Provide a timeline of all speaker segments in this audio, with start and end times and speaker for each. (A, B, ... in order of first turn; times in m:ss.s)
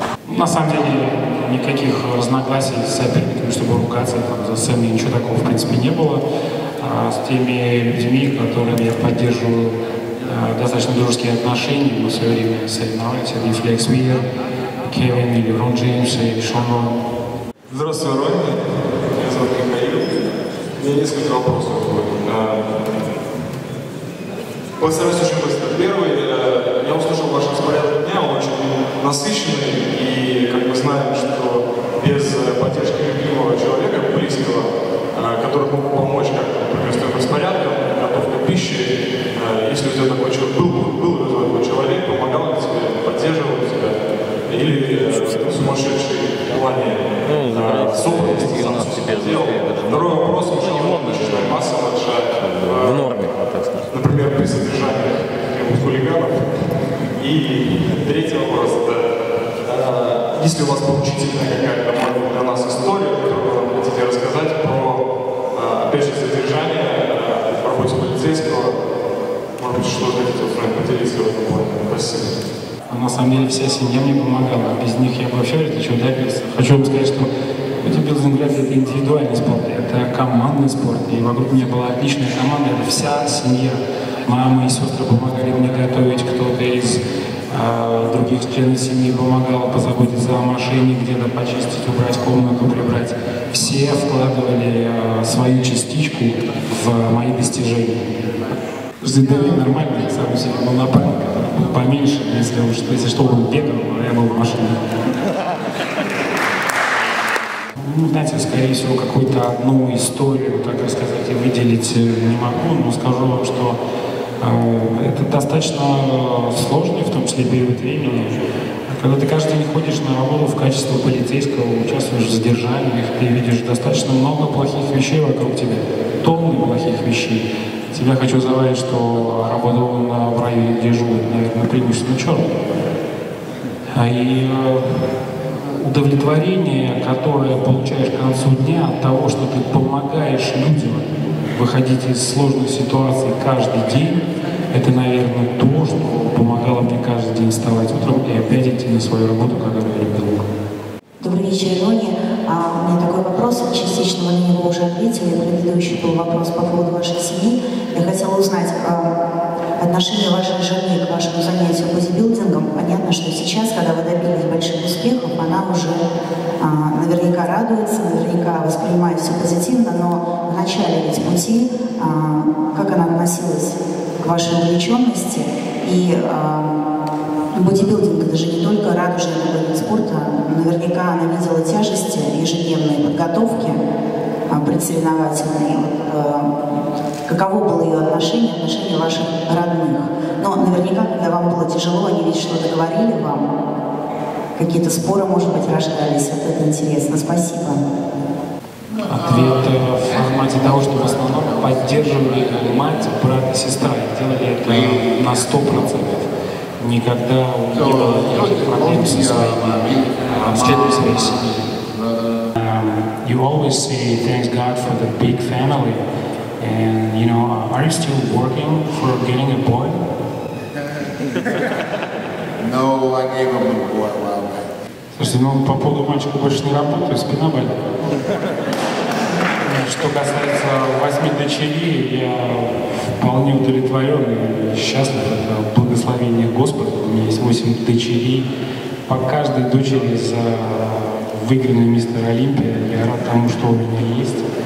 0:00.2-0:06.2 A
0:06.8-0:14.2 A
0:14.8-0:17.0 A
0:17.7-0:20.2 B
0:20.8-0:23.0 B
0:24.8-0:53.2 B
0:47.2-0:51.6 C
0:52.4-0:53.8 C
0:53.9-0:56.5 B
0:57.1-0:59.1 B
0:59.6-1:08.8 B
1:09.6-1:12.4 B
1:12.9-1:38.1 A
1:39.0-1:44.8 A
1:47.8-1:53.8 A
1:54.4-2:12.6 A
2:13.9-2:15.0 A
2:15.5-2:30.4 A
2:31.2-2:39.2 D
2:39.8-2:46.0 D
2:46.6-2:56.8 D
2:57.5-3:03.8 D
3:04.5-3:06.5 D
3:07.2-3:13.5 D
3:14.6-3:17.8 D
3:19.0-3:31.6 A
3:27.8-3:31.3 E
3:32.0-3:32.2 E
3:32.6-3:36.0 A
3:36.6-3:40.0 A
3:42.6-3:44.6 E
3:45.1-3:47.8 A
3:49.6-3:58.5 A
3:59.0-4:04.4 A